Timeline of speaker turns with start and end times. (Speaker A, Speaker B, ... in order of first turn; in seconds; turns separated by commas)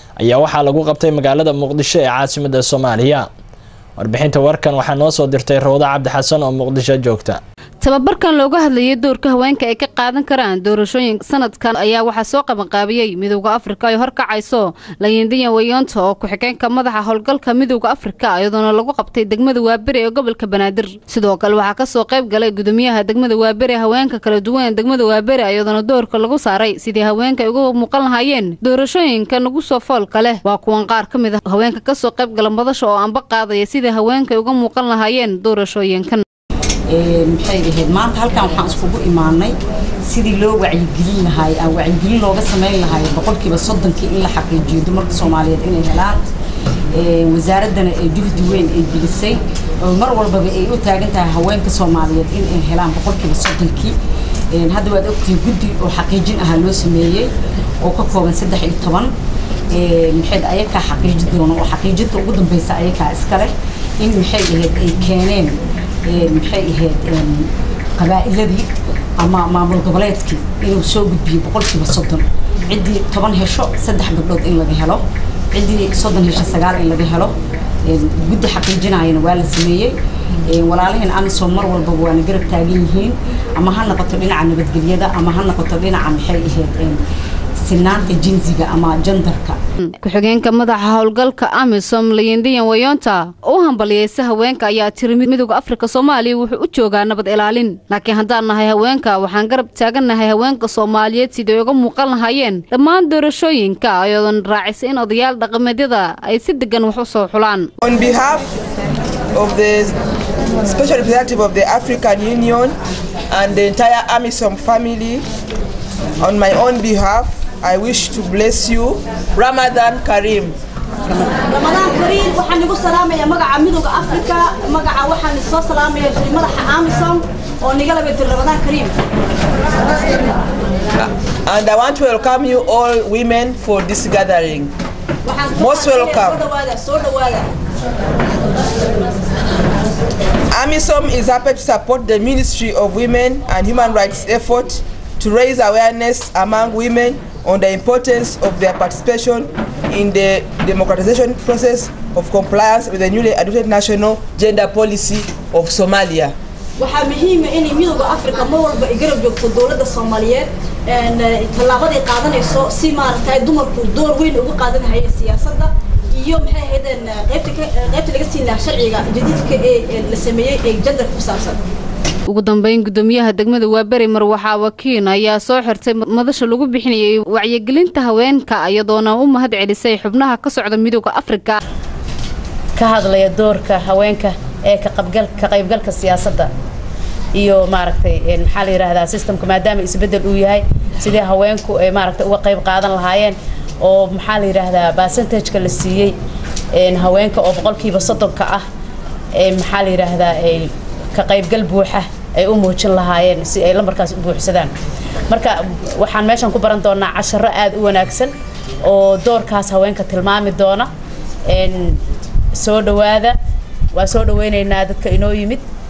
Speaker A: 0.2-3.3, Speaker A: 4.0-7.4, Speaker B: 7.8-36.2, Speaker C: 36.9-46.2, Speaker C: 46.9-54.0, Speaker C: 54.5-59.1, Speaker C: 59.7-87.0, Speaker C: 87.6-89.6, Speaker B: 89.8-107.7, Speaker D: 107.8-108.5, Speaker D: 109.3-109.9, Speaker D: 110.6-112.8, Speaker D: 113.3-115.2, Speaker D: 116.2-120.5, Speaker E: 121.5-129.0, Speaker D: 131.0-134.7, Speaker E: 135.2-137.5, Speaker D: 135.5-136.5, Speaker D: 140.5-156.3, Speaker E: 156.8-171.6, Speaker B: 172.3-181.6, Speaker F: 182.8-186.5, Speaker F: 187.3-196.1, Speaker F: 196.8-198.6, Speaker F: 199.3-204.7, Speaker F: 205.3-208.3, Speaker F: 208.8-210.9, Speaker F: 211.5-213.4, Speaker F: 213.9-215.6